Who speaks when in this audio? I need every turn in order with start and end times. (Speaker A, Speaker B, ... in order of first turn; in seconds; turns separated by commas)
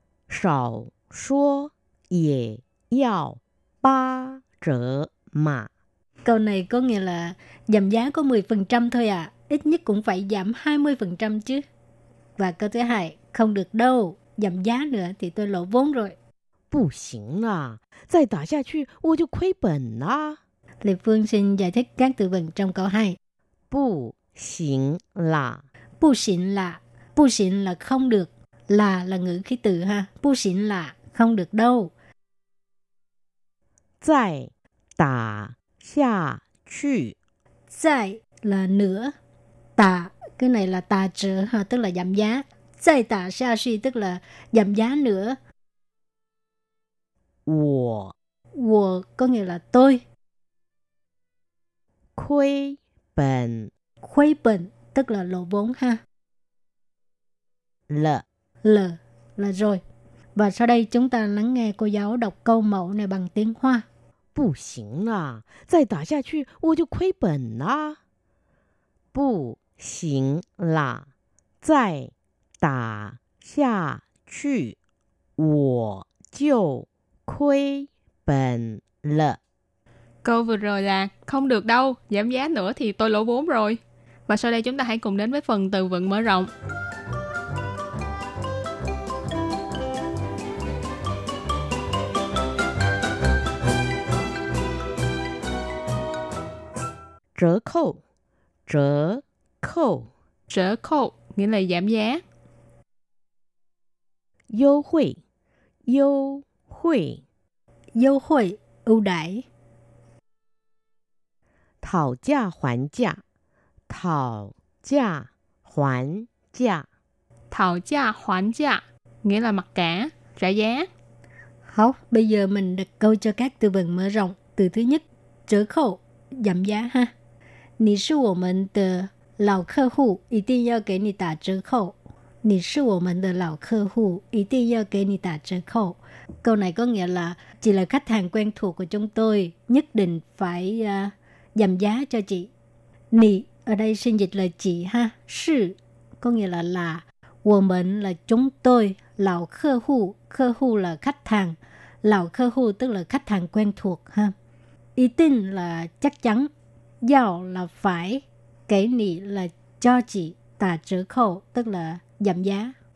Speaker A: 0.3-5.7, Speaker B: 6.2-11.6, Speaker B: 12.4-16.1, Speaker A: 16.7-20.4, Speaker B: 20.8-23.2, Speaker A: 23.7-25.6, Speaker B: 26.0-31.9, Speaker A: 34.0-37.1, Speaker B: 37.7-39.1, Speaker B: 39.8-45.4, Speaker A: 47.5-48.1, Speaker B: 48.6-50.0, Speaker A: 52.1-53.7, Speaker B: 54.0-56.0, Speaker A: 57.9-58.2, Speaker B: 58.6-59.8, Speaker B: 60.4-63.9, Speaker A: 64.3-68.0, Speaker A: 69.1-71.1, Speaker A: 71.6-74.8, Speaker A: 75.4-79.4, Speaker C: 80.2-86.5, Speaker A: 97.3-98.0, Speaker A: 98.7-100.1, Speaker C: 100.5-102.2, Speaker A: 104.5-105.2, Speaker A: 105.9-107.2, Speaker B: 108.0-109.5, Speaker A: 111.8-113.2, Speaker A: 113.9-116.9, Speaker C: 117.5-120.9, Speaker B: 121.7-127.1, Speaker B: 127.8-142.5, Speaker B: 143.1-154.3, Speaker B: 155.0-156.5, Speaker B: 157.0-162.8